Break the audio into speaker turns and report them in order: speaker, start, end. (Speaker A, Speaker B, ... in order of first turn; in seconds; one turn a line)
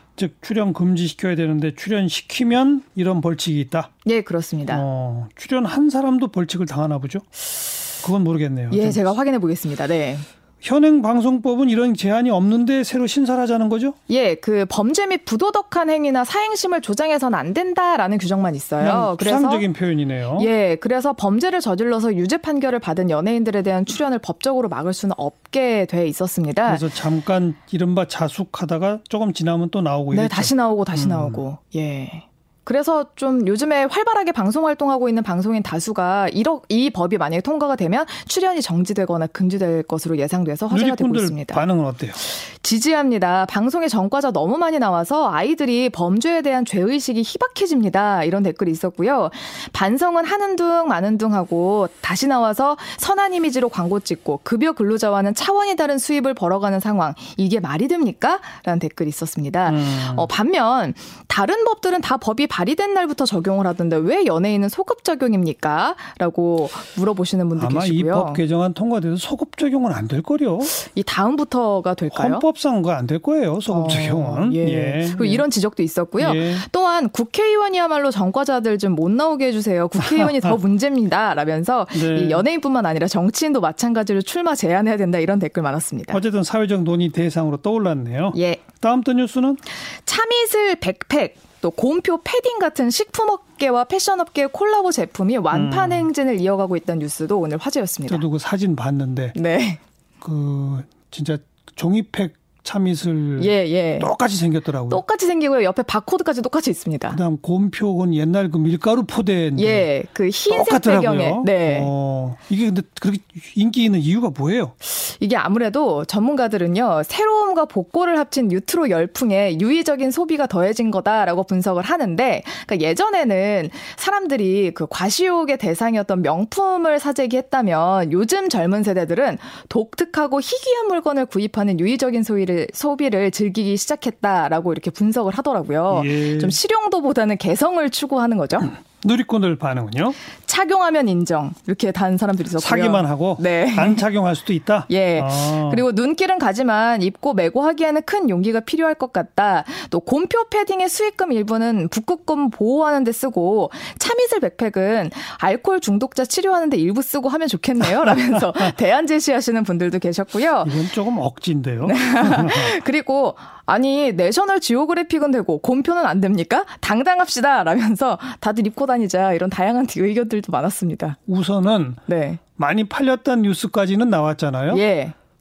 Speaker A: 0.2-3.9
Speaker B: 4.0-4.8
Speaker A: 4.7-7.2
Speaker A: 8.0-9.1
Speaker B: 8.7-10.2
Speaker A: 10.6-13.9
Speaker B: 14.1-19.6
Speaker A: 18.8-20.5
Speaker B: 20.4-26.8
Speaker A: 26.6-31.4
Speaker B: 30.1-41.6
Speaker A: 40.7-42.2
Speaker B: 42.2-68.4
Speaker A: 59.6-60.3
Speaker A: 67.5-70.7
Speaker B: 70.7-72.4
Speaker A: 72.1-75.4
Speaker B: 73.7-86.2
Speaker A: 76.2-76.6
Speaker A: 80.1-80.5
Speaker A: 81.9-82.4
Speaker A: 86.1-89.6
Speaker B: 88.3-88.6
Speaker B: 90.0-98.2
Speaker A: 95.5-96.0
Speaker A: 98.1-99.3
Speaker B: 99.3-99.8
Speaker A: 100.2-105.0
Speaker B: 103.4-104.1
Speaker B: 104.9-107.2
Speaker A: 107.1-109.9
Speaker B: 109.6-111.9
Speaker A: 110.5-114.7
Speaker B: 114.8-138.7
Speaker A: 135.9-136.6
Speaker A: 138.9-140.2
Speaker B: 140.4-144.0
Speaker A: 142.6-145.8
Speaker B: 144.9-160.7
Speaker A: 160.6-162.7
Speaker B: 161.8-171.2
Speaker A: 171.3-172.0
Speaker B: 172.1-172.4
Speaker A: 172.6-174.8
Speaker B: 174.7-175.1